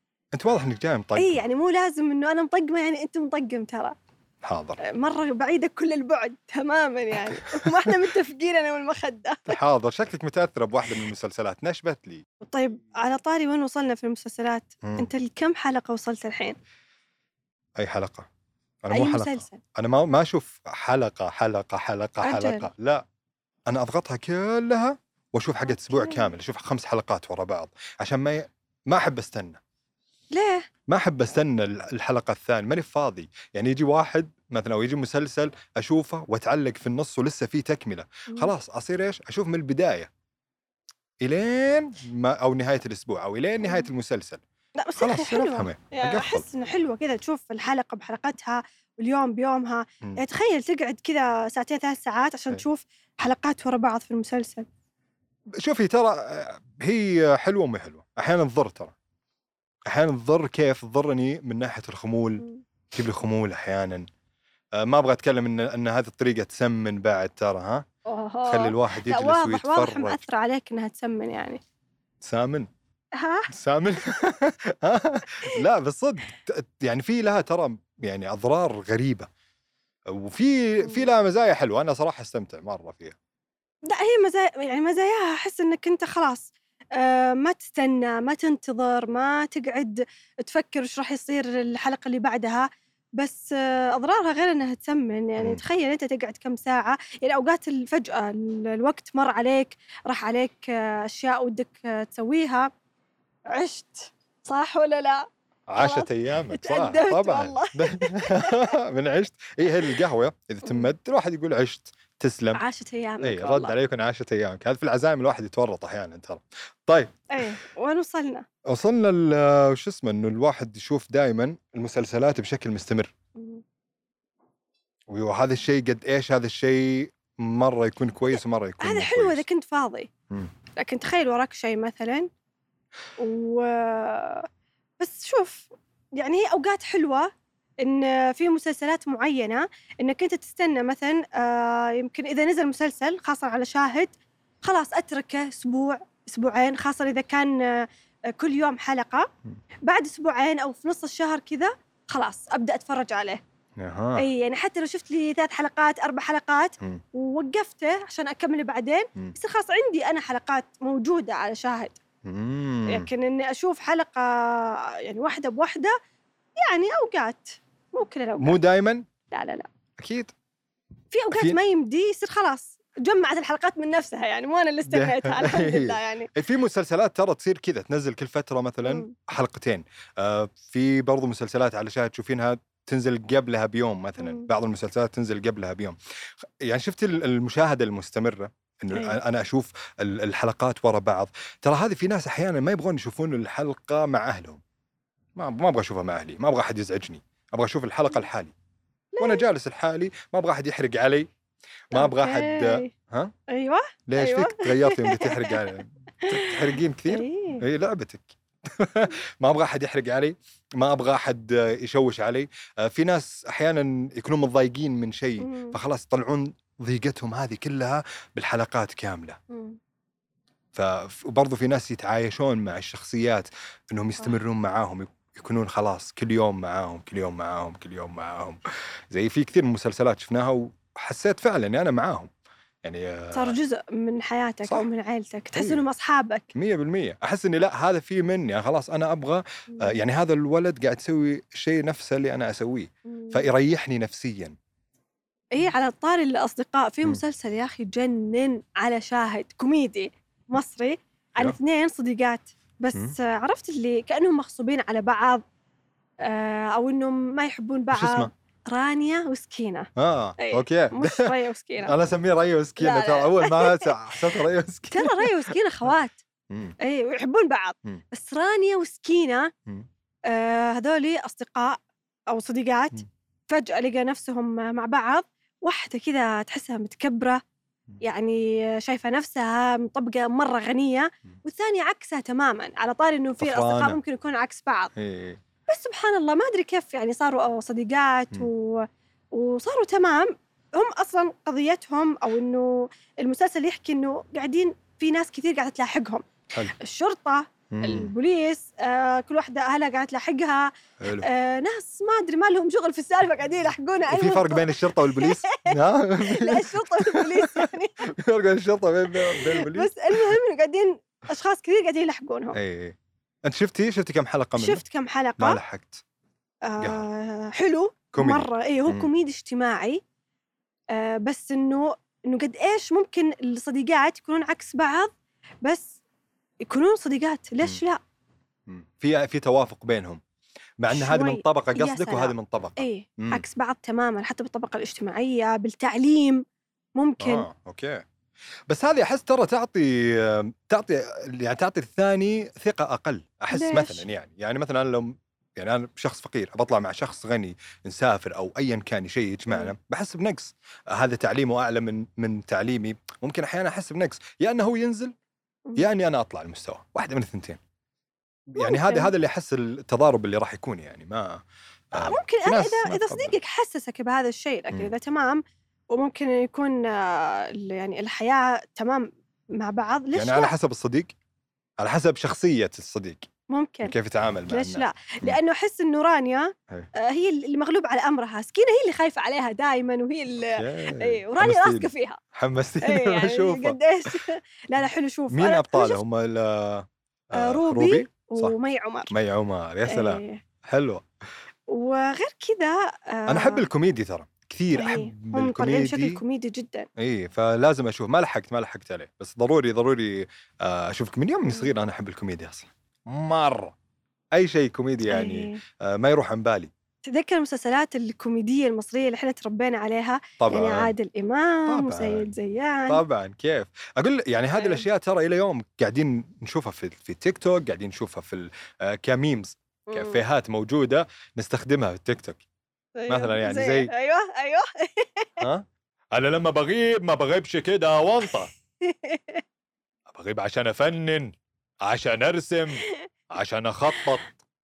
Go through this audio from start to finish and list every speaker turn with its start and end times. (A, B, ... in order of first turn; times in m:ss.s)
0:00.3-0:01.4 A
0:01.2-0:04.0 B
0:04.4-0:04.8 A
0:04.8-0:09.6 B
0:07.6-0:07.9 A
0:09.5-0:12.2 A
0:12.4-0:16.6 B
0:14.8-0:15.1 A
0:17.8-0:18.3 A
0:18.8-0:23.0 A
0:18.9-0:19.6 B
0:22.2-0:22.7 B
0:23.7-0:29.6 A
0:25.7-0:26.3 B
0:30.3-0:30.7 B
0:30.9-0:40.1 A
0:41.2-0:44.4 A
0:44.8-0:54.7 B
0:45.0-0:46.5 A
0:55.6-0:58.9 A
0:59.9-1:04.1 A
1:04.8-1:07.8 A
1:08.1-1:11.6 B
1:08.5-1:10.2 A
1:12.2-1:12.7 A
1:13.2-1:13.5 B
1:13.5-1:19.3 A
1:20.1-1:23.2 A
1:23.9-1:42.7 B
1:43.5-1:45.3 B
1:45.7-1:52.6 A
1:45.8-1:48.7 B
1:52.6-1:53.7 B
1:53.2-1:57.4 A
1:57.3-1:58.4 B
1:58.7-2:03.1 A
2:03.4-2:03.6 B
2:05.1-2:09.4 A
2:08.8-2:10.1 B
2:10.8-2:12.3 B
2:13.2-2:14.5 B
2:15.0-2:29.3 B
2:29.8-2:33.4 B
2:33.8-2:34.2 A
2:34.2-2:42.0 B
2:42.2-2:43.1 A
2:42.9-2:46.0 B
2:46.6-2:48.6 B
2:48.4-2:49.0 A
2:49.3-2:49.7 B
2:50.0-2:50.3 A
2:51.1-2:56.3 B
2:51.3-2:51.6 A
2:54.9-3:14.6 A
2:58.9-2:59.1 B
3:04.2-3:04.5 B
3:08.9-3:09.2 B
3:15.4-3:18.5 A
3:19.2-3:19.5 B
3:19.2-3:21.3 A
3:21.9-3:23.3 A
3:21.9-3:22.9 B
3:23.5-3:25.6 B
3:24.1-3:39.4 A
3:26.2-3:27.6 B
3:35.4-3:35.8 B
3:39.5-3:39.8 B
3:40.7-3:48.6 A
3:49.1-3:52.3 A
3:52.8-3:53.6 A
3:53.3-3:56.5 B
3:55.6-3:55.8 A
3:56.6-4:04.6 A
4:03.1-4:03.5 B
4:05.5-4:15.4 B
4:16.2-4:22.0 B
4:17.9-4:18.3 A
4:20.0-4:25.5 A
4:22.8-4:23.9 B
4:24.9-4:26.2 B
4:26.5-4:26.8 A
4:26.8-4:29.5 B
4:30.3-4:31.8 B
4:32.3-4:37.4 B
4:38.0-4:44.9 B
4:43.4-4:44.0 A
4:45.0-4:45.4 A
4:45.7-5:08.1 B
4:57.7-4:58.1 A
5:01.0-5:01.3 A
5:04.1-5:10.4 A
5:09.2-5:12.6 B
5:12.6-5:14.8 A
5:14.6-5:15.6 B
5:15.4-5:16.0 A
5:16.6-5:20.0 B
5:16.8-5:17.0 A
5:18.1-5:19.1 A
5:20.9-5:25.1 B
5:25.6-5:26.0 B
5:26.6-5:28.0 B
5:28.7-5:30.2 A
5:30.8-5:33.4 A
5:30.9-5:36.4 B
5:37.0-5:37.5 B
5:37.2-5:38.1 A
5:38.7-5:55.1 A
5:43.5-5:44.0 B
5:55.8-5:57.6 A
5:58.5-6:03.4 A
5:58.6-5:59.1 B
6:02.0-6:10.6 B
6:10.1-6:11.1 A
6:11.8-6:13.3 A
6:13.5-6:13.9 B
6:13.8-6:15.4 A
6:14.5-6:22.2 B
6:20.6-6:24.1 A
6:22.8-6:26.0 B
6:25.3-6:28.5 A
6:27.3-6:29.1 B
6:29.1-6:31.0 A
6:29.9-6:30.4 B
6:31.7-6:33.7 B
6:33.3-6:36.2 A
6:34.7-6:36.9 B
6:37.0-6:43.8 A
6:44.3-6:46.7 A
6:45.1-6:45.6 B
6:47.0-6:53.0 B
6:50.4-6:50.9 A
6:51.7-6:52.3 A
6:52.9-7:02.4 A
6:54.6-6:54.8 B
6:59.9-7:00.2 B
7:03.0-7:05.4 B
7:03.1-7:03.9 A
7:05.4-7:08.5 A
7:08.8-7:09.4 B
7:10.1-7:14.3 A